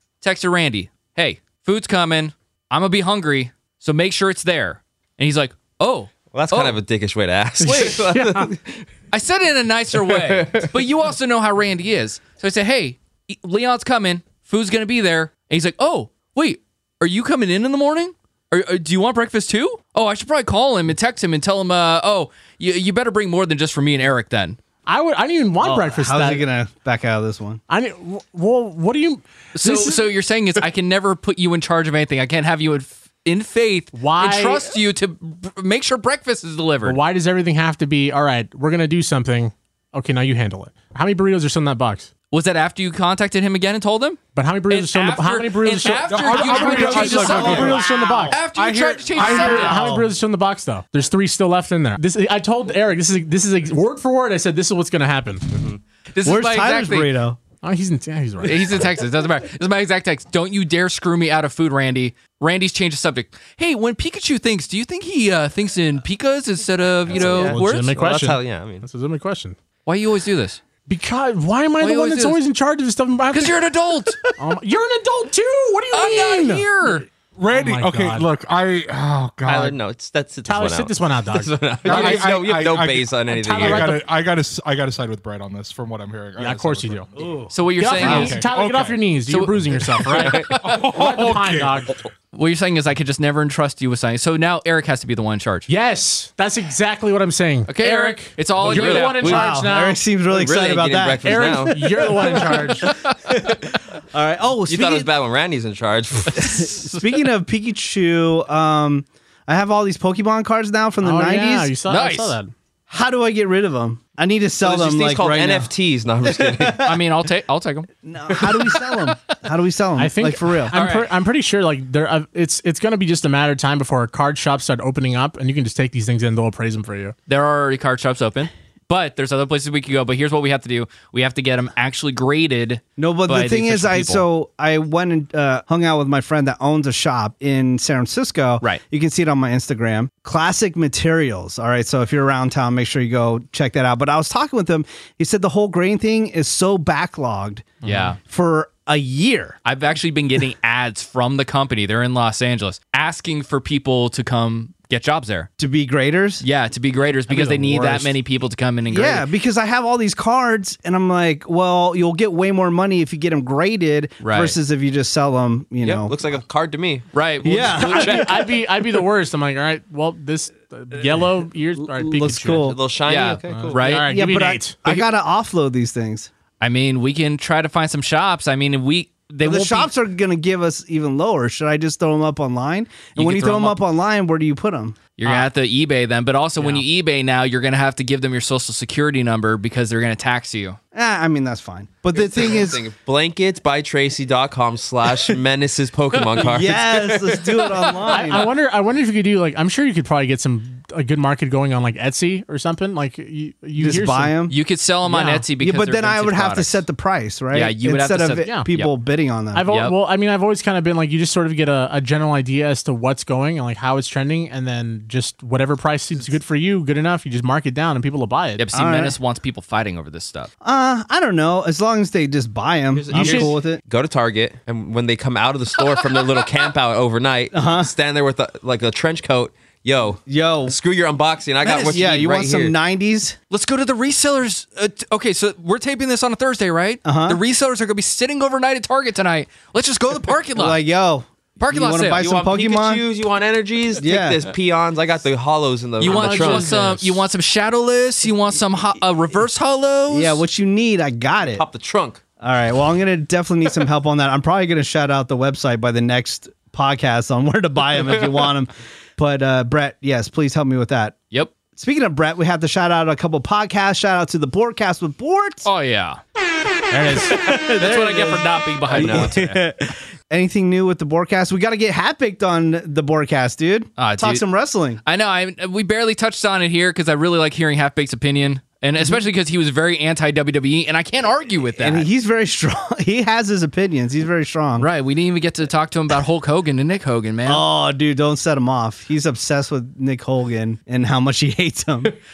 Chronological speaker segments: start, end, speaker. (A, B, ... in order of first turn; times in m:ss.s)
0:00.2-0:06.8 A
0:06.3-0:08.8 B
0:07.6-0:08.5 C
0:09.1-0:24.6 A
0:09.9-0:10.7 B
0:24.8-0:26.4 C
0:25.6-0:27.6 D
0:27.7-0:30.0 C
0:29.5-0:37.0 A
0:33.9-0:34.6 C
0:36.8-0:42.1 C
0:42.3-0:49.8 A
0:44.3-0:48.4 C
0:46.1-0:47.8 E
0:47.0-0:47.8 D
0:48.4-0:49.8 E
0:49.2-0:55.4 C
0:49.3-0:50.0 D
0:55.5-0:55.8 B
0:56.1-0:57.1 A
0:56.2-0:57.4 D
0:57.6-0:58.8 C
0:58.4-1:07.9 A
1:07.1-1:08.8 B
1:07.1-1:09.6 C
1:09.8-1:10.6 A
1:10.9-1:13.6 C
1:11.8-1:12.4 A
1:13.3-1:14.2 A
1:14.3-1:16.7 C
1:15.9-1:17.0 A
1:17.4-1:19.8 E
1:17.5-1:18.3 C
1:19.4-1:24.0 B
1:20.4-1:22.2 C
1:21.8-1:27.4 E
1:23.3-1:24.0 C
1:26.4-1:27.1 C
1:27.2-1:27.5 D
1:27.5-1:28.4 A
1:27.8-1:31.9 C
1:27.9-1:29.0 E
1:29.3-1:30.8 A
1:30.1-1:30.5 B
1:30.5-1:31.9 E
1:32.3-1:35.7 A
1:35.7-1:40.0 C
1:37.7-1:39.4 A
1:38.6-1:39.5 B
1:39.2-1:45.1 D
1:40.3-1:41.8 B
1:41.2-1:42.9 C
1:42.9-1:43.2 A
1:44.7-1:46.7 B
1:46.3-1:51.7 D
1:46.6-1:47.0 A
1:51.0-1:52.5 C
1:51.9-1:52.4 A
1:52.9-1:55.7 D
1:54.6-1:56.9 B
1:56.2-1:57.0 D
1:56.8-1:59.3 A
1:58.0-2:00.7 D
2:00.0-2:07.1 C
2:00.7-2:01.1 A
2:07.3-2:14.2 A
2:13.0-2:29.6 D
2:27.8-2:28.1 C
2:27.8-2:28.2 A
2:29.6-2:35.5 A
2:35.6-2:36.4 D
2:36.4-2:39.2 A
2:37.3-2:38.1 C
2:37.4-2:37.9 D
2:38.9-2:46.2 D
2:44.2-2:44.6 A
2:45.8-2:47.1 B
2:47.1-2:48.3 A
2:47.4-2:48.4 D
2:47.8-2:52.7 C
2:51.8-2:52.8 D
2:52.6-2:53.8 B
2:53.0-2:54.1 A
2:53.5-2:54.8 C
2:54.0-2:56.3 D
2:56.6-2:59.9 A
2:59.4-3:05.0 D
3:03.2-3:03.8 A
3:05.2-3:10.8 A
3:06.6-3:06.8 C
3:10.9-3:12.8 D
3:12.1-3:18.0 B
3:16.3-3:18.5 D
3:18.1-3:24.3 C
3:23.8-3:24.6 D
3:24.5-3:26.8 A
3:25.0-3:25.4 C
3:25.6-3:29.6 D
3:27.5-3:28.9 A
3:28.4-3:28.7 C
3:29.5-3:38.6 C
3:29.7-3:29.9 A
3:38.6-3:40.5 A
3:38.7-3:39.2 D
3:40.6-3:43.8 D
3:42.9-3:52.7 B
3:43.1-3:43.5 A
3:45.9-3:46.5 A
3:47.5-3:47.9 D
3:50.3-3:50.8 D
3:51.6-3:52.0 A
3:51.8-3:53.4 D
3:53.5-4:00.8 A
3:57.0-3:57.4 D
4:00.6-4:03.0 D
4:01.6-4:02.2 A
4:02.2-4:06.7 B
4:04.0-4:04.4 D
4:06.0-4:10.4 A
4:06.0-4:07.2 C
4:10.1-4:11.6 D
4:11.4-4:12.2 B
4:12.4-4:21.2 D
4:21.7-4:25.7 D
4:25.6-4:26.2 A
4:26.9-4:27.3 C
4:27.2-4:29.6 A
4:27.2-4:35.0 D
4:28.9-4:29.3 B
4:34.0-4:34.4 A
4:35.0-4:42.1 A
4:41.8-4:44.9 D
4:44.8-4:47.6 A
4:47.4-4:52.1 D